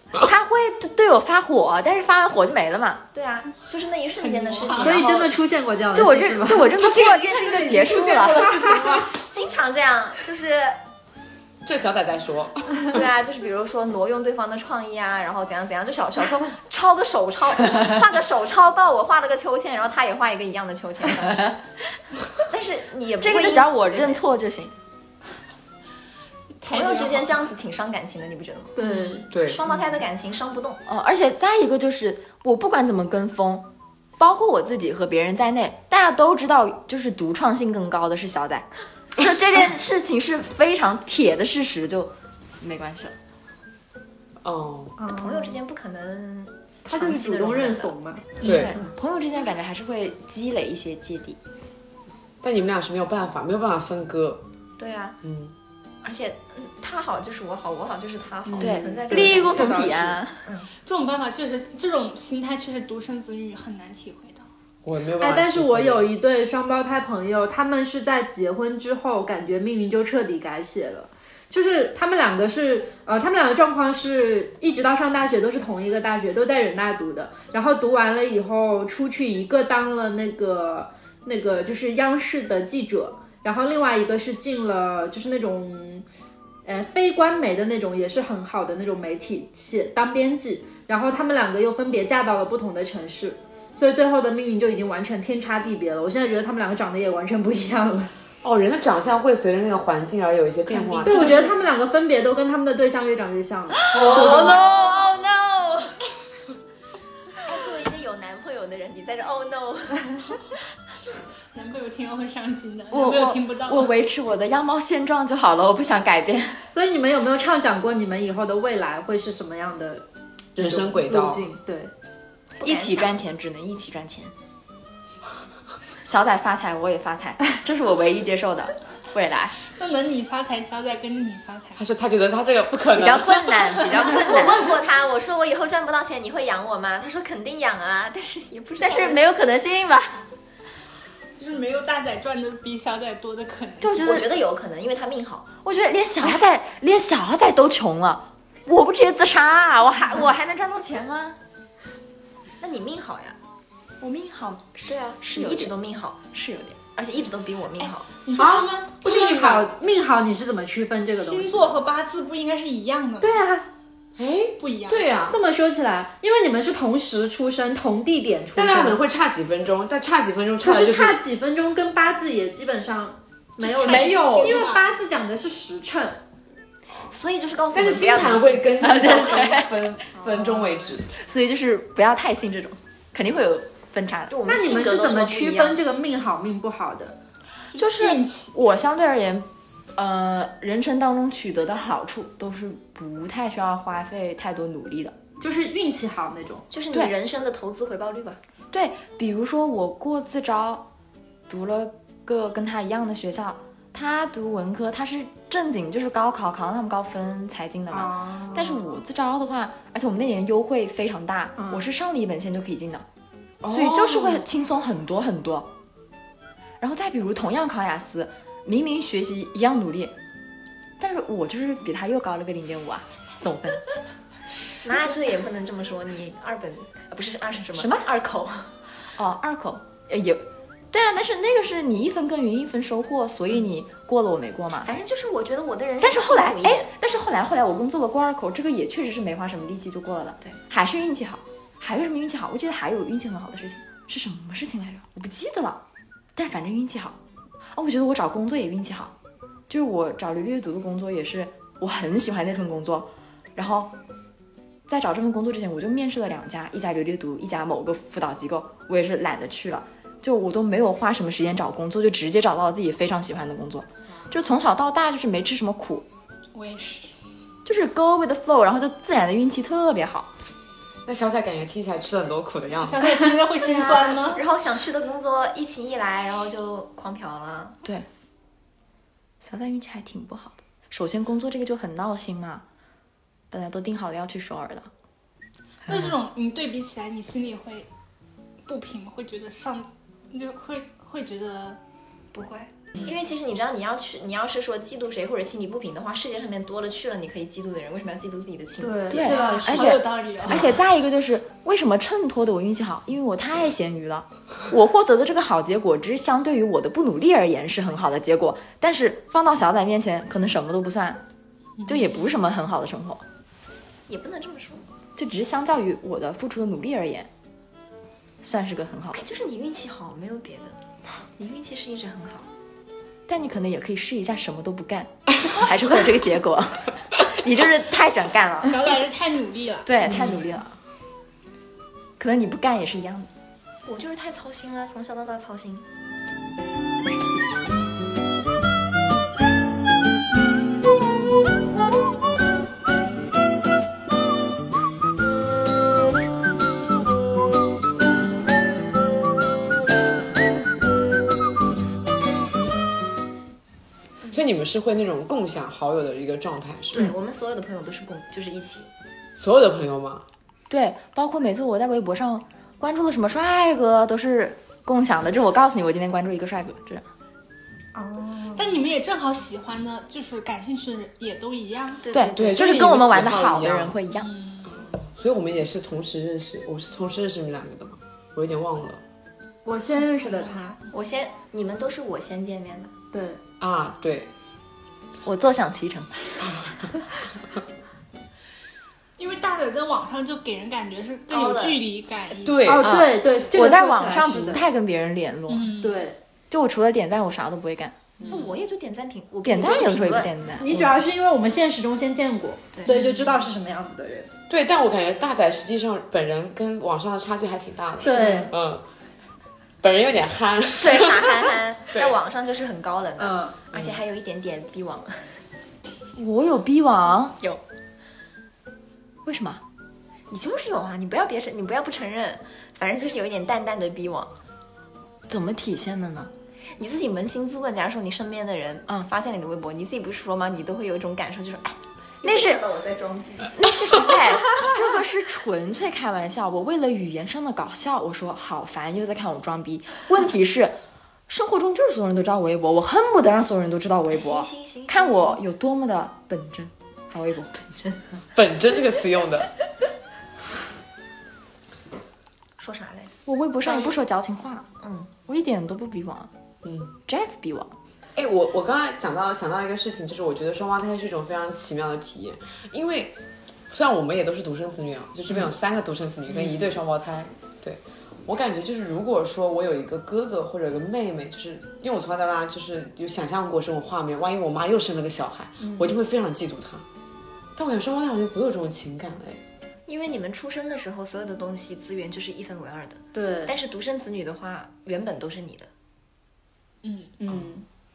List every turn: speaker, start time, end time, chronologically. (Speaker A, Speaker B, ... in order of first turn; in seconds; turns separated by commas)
Speaker A: 0.2-3.0, Speaker B: 3.1-5.3, Speaker C: 4.2-5.1, Speaker D: 4.8-6.8, Speaker A: 5.9-8.6, Speaker E: 6.8-9.1, Speaker B: 9.0-10.8, Speaker E: 11.6-12.9, Speaker B: 12.9-21.6, Speaker B: 22.4-24.2, Speaker A: 23.2-24.7, Speaker C: 26.6-27.4, Speaker B: 26.6-30.8, Speaker D: 28.8-29.3, Speaker E: 29.3-29.6, Speaker A: 30.9-33.6, Speaker A: 34.2-43.1, Speaker E: 44.4-45.0, Speaker D: 45.0-45.6, Speaker B: 45.1-47.9, Speaker D: 46.9-48.4, Speaker E: 48.4-48.8, Speaker A: 48.4-51.4, Speaker E: 52.4-54.4, Speaker B: 54.8-55.2, Speaker E: 55.2-55.5, Speaker B: 56.0-60.7, Speaker D: 58.5-60.2, Speaker A: 58.6-60.4, Speaker C: 60.8-64.5, Speaker E: 64.8-66.1, Speaker D: 65.2-86.0, Speaker D: 86.6-98.1, Speaker E: 98.4-101.5, Speaker D: 101.0-104.6, Speaker A: 103.8-106.0, Speaker B: 104.0-105.0, Speaker B: 107.4-110.4, Speaker C: 111.5-113.9, Speaker A: 112.9-116.6, Speaker D: 116.7-120.0, Speaker E: 120.5-121.5, Speaker D: 120.6-121.9, Speaker B: 122.6-123.2, Speaker A: 122.6-124.3, Speaker A: 126.0-129.5, Speaker C: 129.7-131.8, Speaker E: 131.8-133.6, Speaker A: 132.9-134.7, Speaker B: 133.7-139.2, Speaker A: 138.8-140.2, Speaker C: 141.3-144.3, Speaker A: 143.8-144.2, Speaker B: 144.0-145.5, Speaker A: 145.6-151.4, Speaker B: 152.6-153.3, Speaker A: 154.0-155.7, Speaker B: 154.8-156.2, Speaker A: 156.3-156.8, Speaker B: 156.9-158.1, Speaker C: 158.2-159.0, Speaker E: 158.3-159.7, Speaker D: 159.0-161.8, Speaker C: 161.2-163.4, Speaker D: 163.2-163.7, Speaker E: 164.2-165.4, Speaker C: 164.6-165.0, Speaker D: 165.3-169.0, Speaker E: 168.6-171.2, Speaker D: 170.6-176.2, Speaker C: 173.6-174.9, Speaker E: 173.8-174.6, Speaker B: 177.1-179.5, Speaker E: 177.7-181.1, Speaker A: 178.8-179.7, Speaker D: 180.2-180.8, Speaker A: 181.1-184.3, Speaker B: 184.3-185.8, Speaker D: 184.5-187.2, Speaker C: 187.7-188.6, Speaker A: 187.8-195.1, Speaker D: 195.4-196.7, Speaker B: 196.7-198.4, Speaker A: 198.7-200.8, Speaker A: 201.5-213.0, Speaker D: 207.9-208.8, Speaker D: 211.6-211.8, Speaker E: 213.6-214.4, Speaker A: 213.7-215.7, Speaker A: 216.8-220.1, Speaker A: 221.0-223.8, Speaker B: 224.8-228.7, Speaker A: 227.8-228.1, Speaker A: 229.2-234.9, Speaker B: 234.8-236.9, Speaker A: 236.0-245.8, Speaker A: 246.3-247.2, Speaker A: 247.7-249.1, Speaker A: 249.7-253.9, Speaker A: 254.9-266.0, Speaker C: 266.5-267.1, Speaker A: 267.6-270.3, Speaker E: 271.1-273.1, Speaker C: 272.8-274.5, Speaker B: 273.6-277.8, Speaker A: 279.4-282.6, Speaker A: 283.5-284.9, Speaker C: 285.9-287.9, Speaker C: 288.6-291.8, Speaker B: 292.3-299.9, Speaker D: 298.8-299.6, Speaker A: 299.1-311.2, Speaker C: 299.1-300.8, Speaker C: 311.8-312.4, Speaker A: 311.9-313.2, Speaker B: 314.1-314.9, Speaker A: 315.1-317.3, Speaker A: 318.4-319.2, Speaker B: 319.1-320.8, Speaker B: 321.4-322.5, Speaker A: 323.3-328.9, Speaker C: 328.6-330.1, Speaker A: 329.8-330.8, Speaker A: 332.2-333.3, Speaker B: 333.9-335.8, Speaker E: 354.3-357.1, Speaker B: 356.9-358.9, Speaker E: 359.4-360.2, Speaker A: 360.7-367.0, Speaker D: 367.9-368.6, Speaker C: 368.5-372.0, Speaker B: 372.0-372.5, Speaker A: 372.1-374.3, Speaker E: 372.3-374.0, Speaker C: 374.2-374.8, Speaker E: 374.8-379.0, Speaker D: 379.6-380.7, Speaker C: 379.9-380.9, Speaker B: 380.9-382.9, Speaker D: 383.1-383.4, Speaker E: 383.6-384.3, Speaker A: 385.2-386.1, Speaker E: 386.4-386.9, Speaker C: 389.2-392.8, Speaker B: 391.3-391.8, Speaker E: 392.4-393.0, Speaker D: 392.7-394.6, Speaker A: 392.8-395.7, Speaker C: 395.5-396.1, Speaker D: 395.8-396.2, Speaker A: 396.5-397.9, Speaker D: 398.2-398.5, Speaker C: 398.2-398.6, Speaker B: 398.3-400.3, Speaker A: 399.4-401.0, Speaker D: 400.6-404.3, Speaker B: 402.7-403.1, Speaker E: 404.5-408.8, Speaker D: 408.0-408.5, Speaker B: 408.0-408.5, Speaker E: 409.8-412.1, Speaker B: 410.8-415.4, Speaker D: 413.2-413.6, Speaker E: 413.7-414.0, Speaker A: 416.2-417.4, Speaker A: 419.2-419.6, Speaker B: 420.3-424.3, Speaker A: 425.3-426.3, Speaker B: 426.8-434.1, Speaker A: 432.2-432.6, Speaker A: 433.5-448.0, Speaker B: 444.1-445.4, Speaker E: 448.3-449.5, Speaker B: 452.6-453.1, Speaker A: 453.2-454.7, Speaker B: 454.8-455.1, Speaker A: 455.2-456.3, Speaker E: 456.6-456.9, Speaker A: 457.1-457.7, Speaker E: 458.1-463.2, Speaker E: 463.7-476.9, Speaker D: 475.6-475.9, Speaker E: 477.6-479.4, Speaker B: 479.9-485.7, Speaker D: 483.1-483.6, Speaker C: 486.8-487.1, Speaker D: 487.2-487.6